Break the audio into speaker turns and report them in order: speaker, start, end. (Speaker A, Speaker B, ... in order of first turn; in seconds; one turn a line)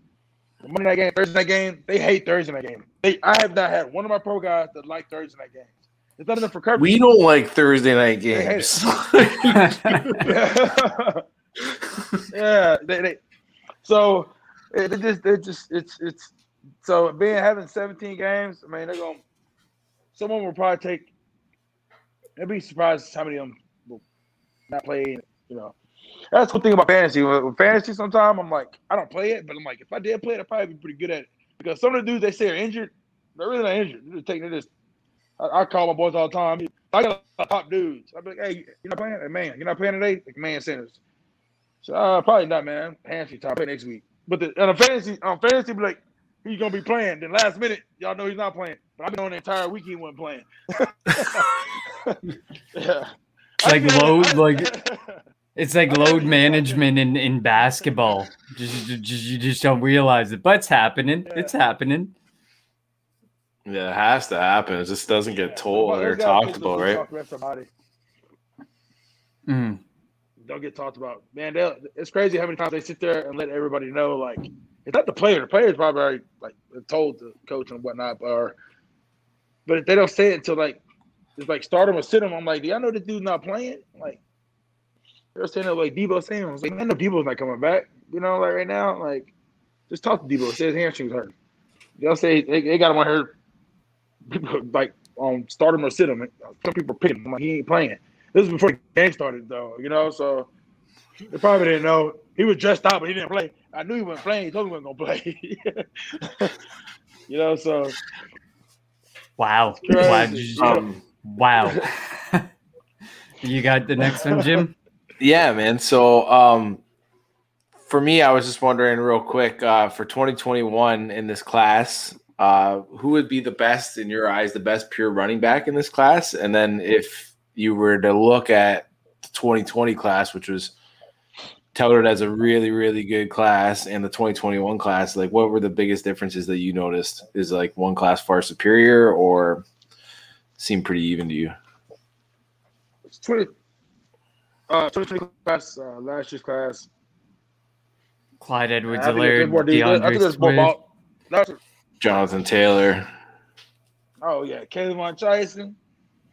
Speaker A: 0.6-6.9
Speaker B: 6.8-10.3
Speaker A: 8.3-8.8
Speaker C: 9.6-10.2
Speaker A: 10.2-11.2
Speaker A: 12.3-13.2
Speaker A: 13.8-16.3
Speaker A: 16.8-19.2
Speaker A: 20.1-21.1
Speaker A: 22.4-24.0
Speaker A: 24.7-25.7
Speaker A: 26.3-34.7
Speaker A: 35.4-41.0
Speaker A: 41.8-52.2
Speaker A: 52.7-55.2
Speaker C: 53.6-54.7
Speaker C: 55.6-62.1
Speaker A: 55.9-56.8
Speaker A: 61.3-61.5
Speaker B: 63.6-67.0
Speaker A: 65.5-67.7
Speaker C: 69.5-69.8
Speaker A: 70.4-78.5
Speaker A: 79.7-80.8
Speaker A: 81.4-84.2
Speaker A: 85.3-89.3
Speaker A: 89.9-91.3
Speaker A: 92.0-93.3
Speaker A: 94.3-100.5
Speaker A: 101.3-106.5
Speaker A: 107.3-108.0
Speaker C: 109.4-112.5
Speaker A: 109.8-110.8
Speaker B: 110.6-111.0
Speaker C: 113.4-114.7
Speaker A: 114.2-114.6
Speaker B: 115.2-116.8
Speaker B: 117.9-130.7
Speaker B: 131.7-139.6
Speaker B: 140.6-141.5
Speaker A: 143.1-143.5
Speaker A: 144.7-146.9
Speaker C: 148.4-150.7
Speaker A: 148.9-151.6
Speaker B: 152.0-153.1
Speaker A: 154.2-155.8